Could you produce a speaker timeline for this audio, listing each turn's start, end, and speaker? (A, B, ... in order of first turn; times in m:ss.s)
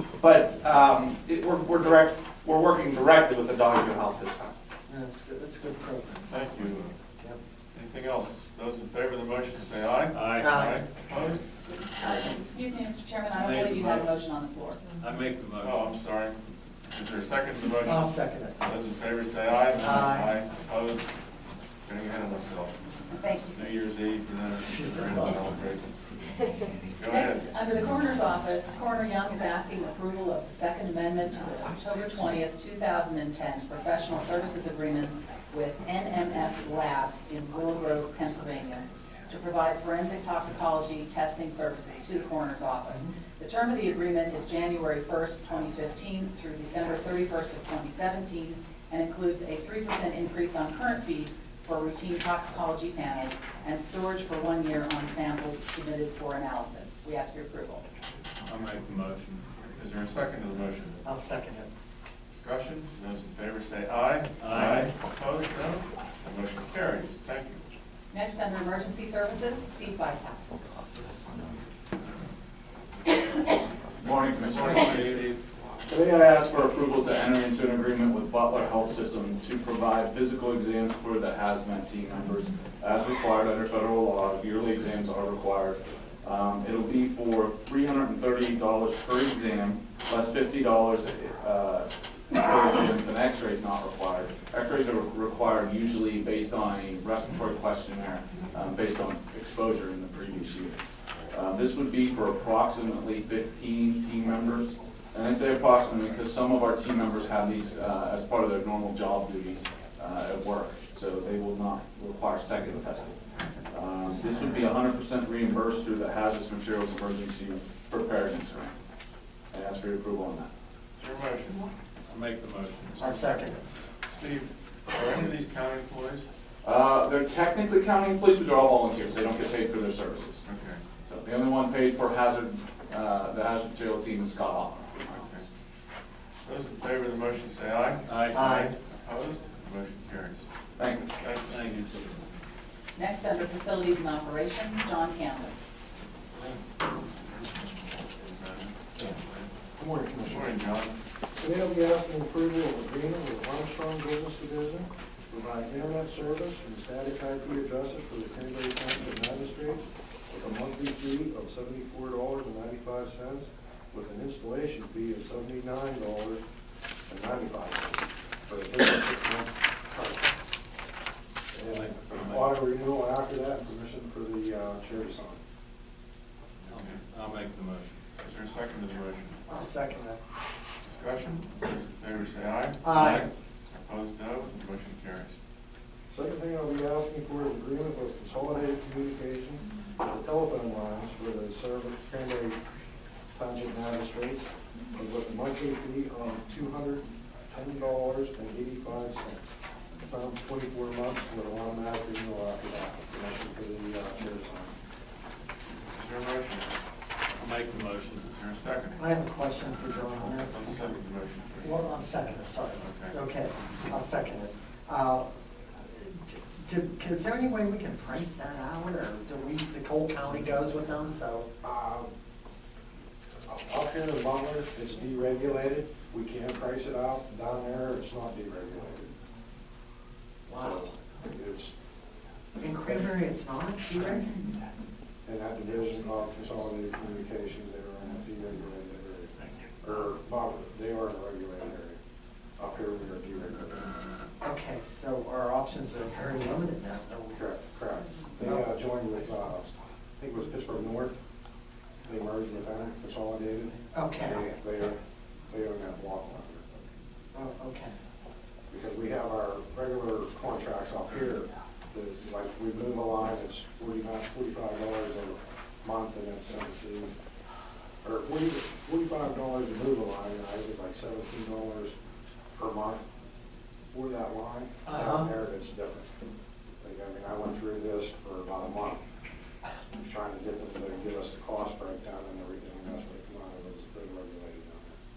0:00.2-0:04.5 A
0:04.9-0:06.3 B
0:06.3-0:07.0 C
0:07.7-0:11.4 C
0:10.1-0:10.5 D
0:10.4-0:10.8 B
0:11.7-0:14.8 E
0:13.4-0:14.1 D
0:14.9-0:15.8 D
0:15.6-0:16.4 C
0:16.9-0:21.1 C
0:17.8-0:18.7 B
0:19.8-0:20.3 B
0:21.8-0:22.8 C
0:23.1-0:23.6 E
0:23.5-0:25.9 C
0:25.0-0:25.3 B
0:26.9-0:27.6 C
0:27.0-0:57.8 E
0:58.4-0:59.5 D
0:59.8-1:01.0 C
1:01.0-1:01.7 B
1:02.3-1:07.6 C
1:04.4-1:04.9 D
1:08.1-1:10.6 E
1:14.0-1:15.2 F
1:14.5-1:15.4 C
1:15.9-1:40.8 F
1:41.3-1:58.8 F
1:59.5-2:00.5 F
2:01.0-2:01.7 C
2:02.1-2:03.3 D
2:03.0-2:03.6 B
2:04.2-2:06.3 C
2:06.6-2:10.4 F
2:10.5-2:10.8 C
2:11.1-2:15.1 F
2:15.1-2:15.4 C
2:16.4-2:20.4 C
2:18.1-2:18.4 D
2:18.3-2:18.7 B
2:20.8-2:21.1 F
2:21.2-2:21.9 C
2:21.5-2:22.1 D
2:23.0-2:25.6 E
2:27.3-2:29.5 C
2:29.8-2:30.5 G
2:30.3-2:31.0 C
2:31.4-2:46.4 G
2:47.1-2:50.3 G
2:51.5-2:55.4 G
2:51.7-2:52.6 D
2:56.7-2:57.0 C
2:56.7-2:58.0 D
2:58.2-2:59.6 C
2:59.5-3:00.2 B
3:00.8-3:05.3 C
3:02.8-3:03.3 B
3:06.1-3:12.6 G
3:13.3-3:19.5 G
3:20.0-3:24.7 G
3:25.8-3:26.8 C
3:27.4-3:28.3 D
3:28.3-3:29.0 C
3:29.0-3:30.9 B
3:30.1-3:32.0 C
3:31.6-3:35.3 B
3:32.8-3:33.2 C
3:35.9-3:41.5 B
3:41.6-3:42.1 G
3:43.5-3:49.1 G
3:50.5-3:50.9 B
3:50.6-3:51.7 G
3:52.6-3:54.3 B
3:52.9-3:53.1 G
3:55.3-3:59.3 G
3:59.8-4:02.0 G
4:02.6-4:04.0 G
4:04.4-4:07.4 B
4:07.3-4:11.2 G
4:08.4-4:08.8 B
4:12.1-4:16.7 G
4:13.9-4:14.5 B
4:17.3-4:18.0 B
4:18.7-4:27.1 G
4:28.0-4:32.0 G
4:32.6-4:33.0 G
4:33.9-4:36.1 G
4:34.9-4:35.3 B
4:36.8-4:39.0 G
4:40.0-4:45.0 G